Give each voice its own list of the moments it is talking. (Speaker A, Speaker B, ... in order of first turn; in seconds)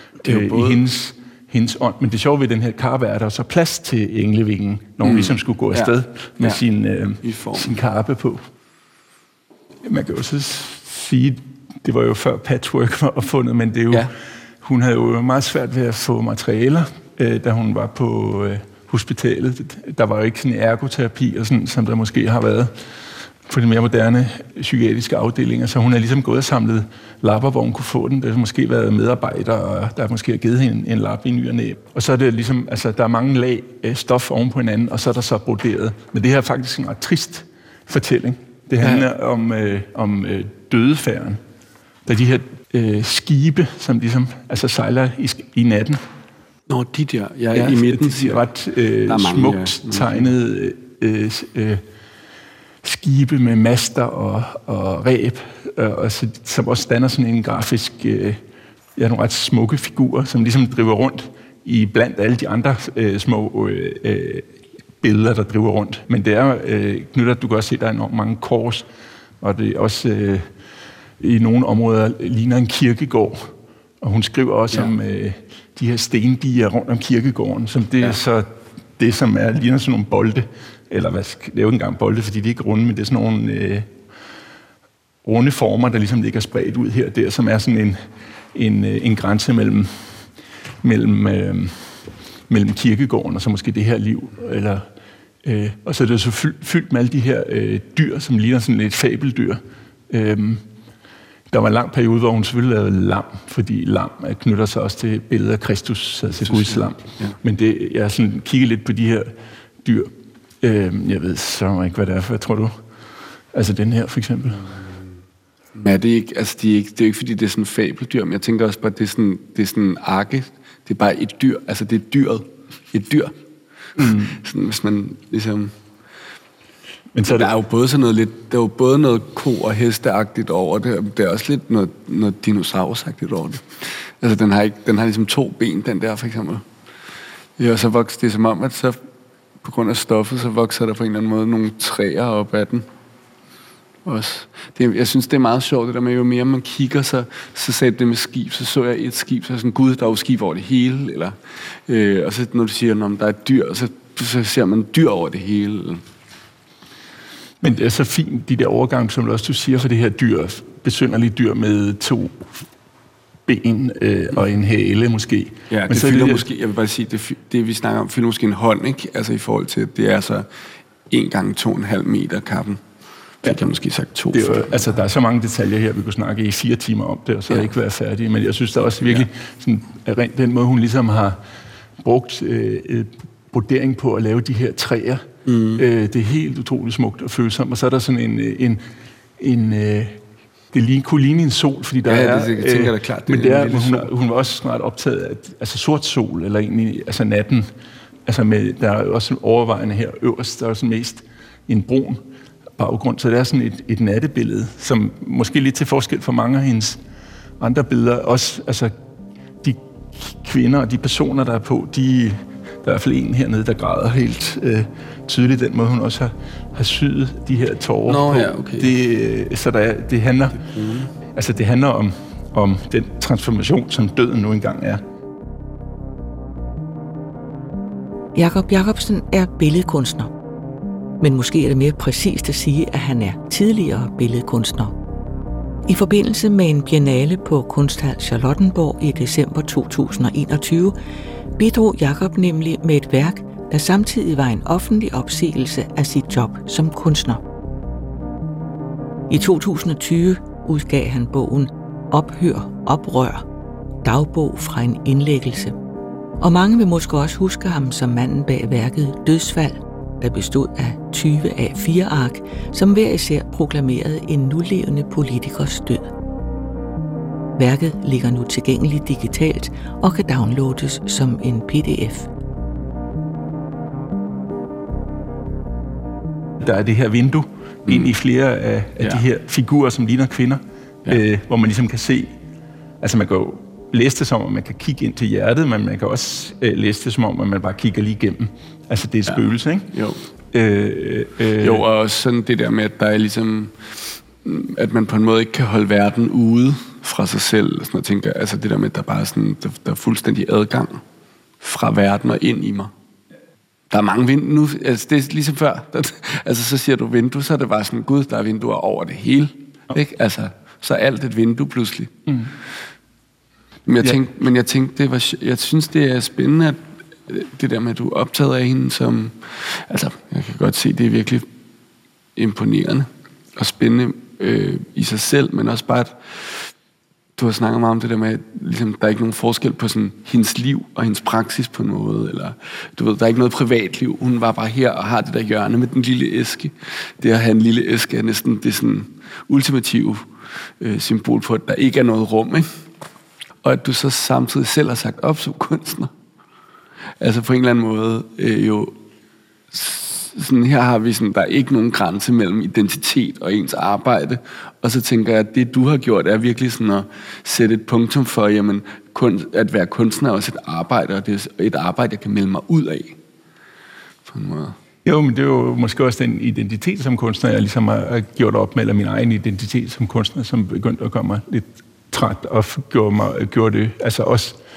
Speaker A: 0.2-8.4, 9.8-14.1, 14.6-22.7, 23.5-41.4, 42.1-46.0, 47.5-51.8, 52.8-58.4, 59.0-68.9, 69.4-70.5, 71.2-83.9, 85.2-88.0, 88.5-90.2, 90.8-94.9, 95.4-100.6, 101.5-112.7, 113.5-114.7, 124.0-124.4, 127.1-127.5, 157.6-162.6, 163.5-166.5, 174.3-181.4, 182.0-188.8, 189.4-190.2, 190.7-197.7, 198.3-202.2, 202.8-207.0, 207.6-208.9, 209.6-220.7, 221.3-225.0, 276.6-282.4, 283.0-289.9, 290.5-291.9, 365.0-374.6
Speaker B: 0.2-0.8, 5.0-6.6, 7.2-7.8, 38.8-39.1, 46.7-48.5, 49.0-50.3, 106.4-107.4, 115.8-123.3, 124.0-125.7, 127.2-136.6, 137.6-139.0, 139.6-142.9, 144.1-156.0, 165.7-170.5, 171.1-172.8, 173.4-174.8, 185.5-185.8, 192.1-194.1, 218.1-218.9, 220.7-221.1, 277.9-278.1, 289.9-290.2, 291.6-301.0, 301.6-302.9, 303.9-312.3, 313.9-321.5, 322.4-326.7, 327.4-340.3, 340.8-342.8, 343.6-346.1, 347.2-348.9, 349.7-363.2, 364.3-364.8
Speaker C: 228.3-230.3, 231.2-234.9, 235.9-241.0, 241.6-247.4, 249.3-253.4, 254.0-255.8, 256.4-266.1, 267.6-272.3